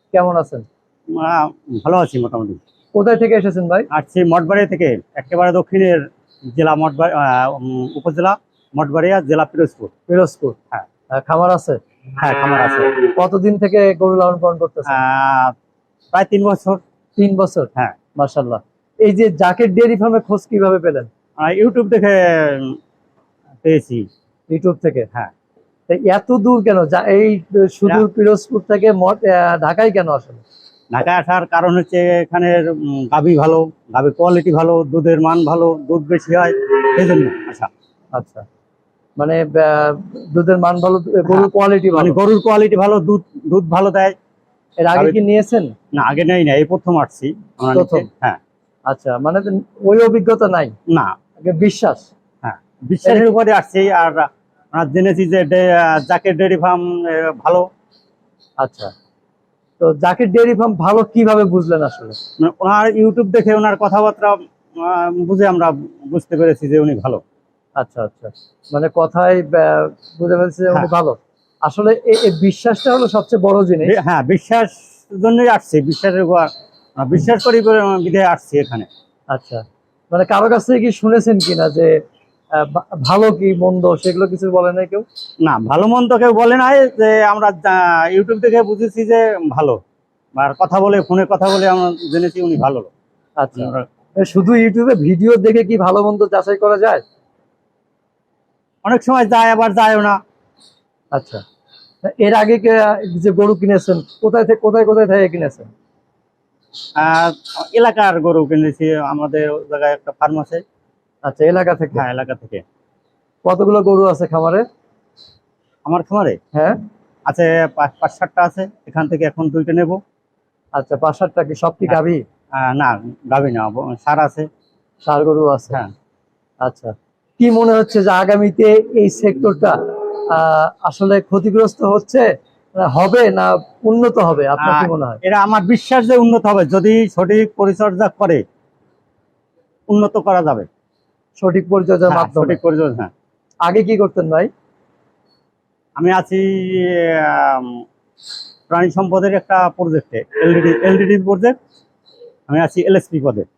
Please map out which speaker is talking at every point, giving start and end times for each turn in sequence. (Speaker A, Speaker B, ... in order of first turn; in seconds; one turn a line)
Speaker A: 0.1-0.7
Speaker B: 1.1-2.6
Speaker A: 3.0-3.9
Speaker B: 3.9-9.9
Speaker A: 10.1-10.6
Speaker A: 11.2-11.8
Speaker B: 12.2-12.9
Speaker A: 13.2-15.0
Speaker B: 14.9-15.5
Speaker B: 16.1-16.8
Speaker A: 17.2-21.1
Speaker B: 21.4-22.8
Speaker B: 23.6-24.1
Speaker A: 24.5-25.1
Speaker A: 25.9-30.4
Speaker B: 30.9-37.7
Speaker A: 38.1-38.5
Speaker A: 39.2-42.2
Speaker B: 41.3-44.1
Speaker A: 44.8-45.7
Speaker B: 46.0-48.4
Speaker A: 47.7-48.1
Speaker A: 48.9-50.7
Speaker A: 51.4-52.1
Speaker B: 52.4-57.7
Speaker A: 53.0-53.3
Speaker A: 58.6-58.9
Speaker A: 59.8-62.2
Speaker B: 62.4-67.2
Speaker A: 67.8-74.0
Speaker B: 73.8-78.9
Speaker A: 79.3-81.9
Speaker A: 82.5-85.0
Speaker B: 85.4-89.8
Speaker B: 90.4-92.9
Speaker A: 93.4-97.0
Speaker B: 93.6-93.9
Speaker B: 98.8-100.2
Speaker A: 101.1-101.4
Speaker A: 102.0-105.7
Speaker B: 107.0-110.6
Speaker A: 111.2-112.0
Speaker B: 112.0-112.6
Speaker A: 113.5-114.7
Speaker B: 115.9-116.4
Speaker A: 116.5-116.8
Speaker B: 117.3-120.0
Speaker A: 120.8-122.2
Speaker B: 122.6-124.5
Speaker A: 125.1-125.8
Speaker A: 126.6-135.2
Speaker B: 134.6-138.4
Speaker B: 139.9-140.7
Speaker A: 141.4-142.6
Speaker B: 142.1-143.1
Speaker A: 143.7-144.5
Speaker B: 146.0-147.8
Speaker B: 148.7-151.6
Speaker B: 152.5-153.5